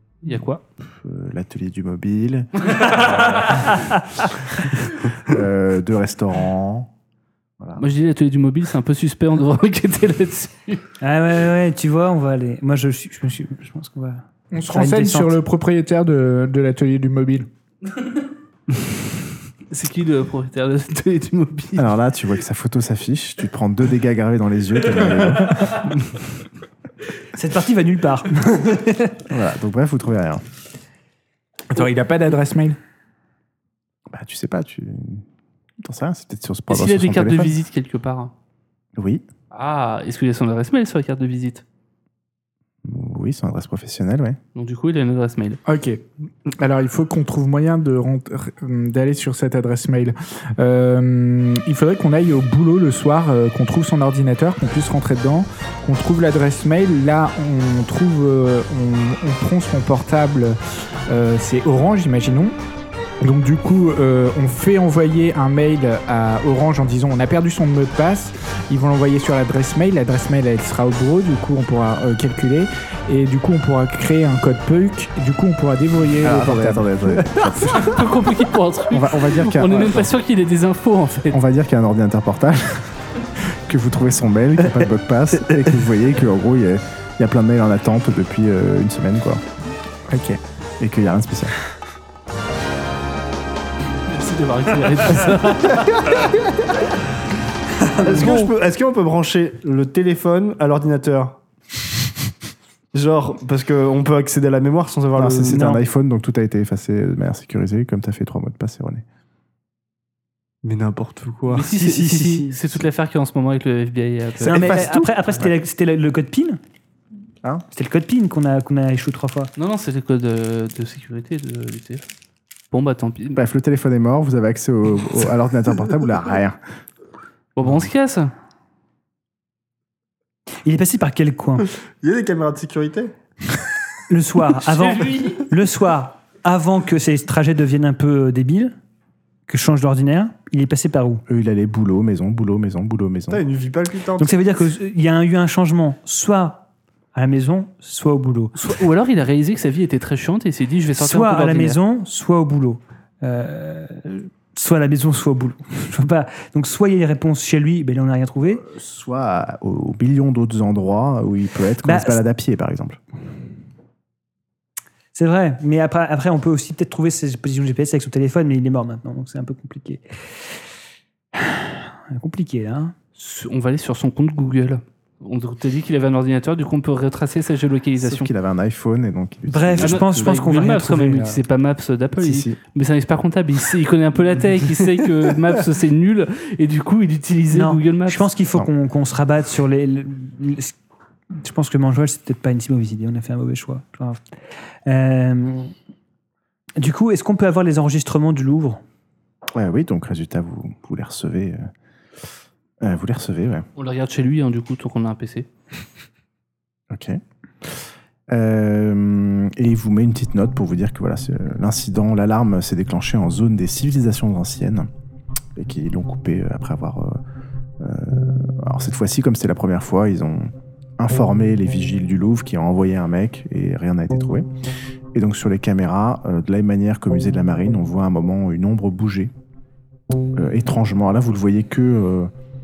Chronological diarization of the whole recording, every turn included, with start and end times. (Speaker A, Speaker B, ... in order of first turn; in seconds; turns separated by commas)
Speaker A: 0.2-0.6, Speaker B: 0.8-6.9, Speaker A: 7.8-10.9, Speaker C: 11.0-14.2, Speaker D: 14.5-17.5, Speaker B: 14.7-15.3, Speaker A: 19.7-22.0, Speaker B: 21.8-25.9, Speaker C: 27.3-29.2, Speaker B: 29.2-30.4, Speaker D: 31.7-32.8, Speaker B: 34.1-35.2, Speaker B: 35.8-37.5, Speaker A: 36.7-38.3, Speaker B: 39.0-39.2, Speaker A: 39.5-41.6, Speaker B: 42.8-44.4, Speaker A: 44.5-45.6, Speaker D: 45.6-62.5, Speaker D: 63.2-77.3, Speaker B: 76.2-78.1, Speaker A: 77.7-81.4, Speaker B: 78.9-80.1, Speaker B: 81.3-89.4, Speaker D: 90.1-90.4, Speaker B: 90.8-91.6, Speaker A: 94.0-96.3, Speaker E: 95.7-96.6, Speaker E: 97.9-101.4, Speaker C: 97.9-98.5, Speaker E: 102.9-105.7, Speaker B: 105.1-109.0, Speaker C: 105.5-105.8, Speaker E: 110.6-111.7, Speaker A: 111.5-114.9, Speaker C: 111.6-112.6, Speaker C: 114.4-116.6, Speaker B: 114.5-114.8, Speaker E: 114.5-115.0, Speaker C: 117.7-119.5, Speaker A: 119.6-122.0, Speaker A: 122.7-123.4, Speaker B: 123.3-126.6, Speaker A: 127.5-128.3, Speaker C: 130.6-131.7, Speaker E: 131.7-133.1, Speaker C: 134.1-138.8, Speaker A: 134.7-135.4, Speaker C: 139.5-141.2, Speaker B: 141.3-143.4, Speaker E: 143.3-144.3, Speaker C: 144.2-148.6, Speaker A: 148.6-151.8, Speaker C: 151.0-158.6, Speaker B: 158.6-163.0, Speaker C: 161.8-162.2, Speaker C: 165.1-170.3, Speaker C: 171.3-172.9, Speaker A: 173.2-178.3, Speaker B: 178.0-180.4, Speaker C: 179.5-181.4, Speaker A: 179.8-188.3, Speaker B: 182.2-182.6, Speaker C: 187.5-190.8, Speaker C: 191.3-194.2, Speaker C: 194.8-195.7, Speaker C: 196.8-198.8, Speaker B: 199.5-201.7, Speaker B: 202.8-203.7, Speaker A: 203.8-205.5, Speaker B: 206.9-214.9, Speaker B: 215.6-217.2, Speaker B: 217.8-224.5, Speaker B: 225.1-229.3, Speaker B: 230.3-232.3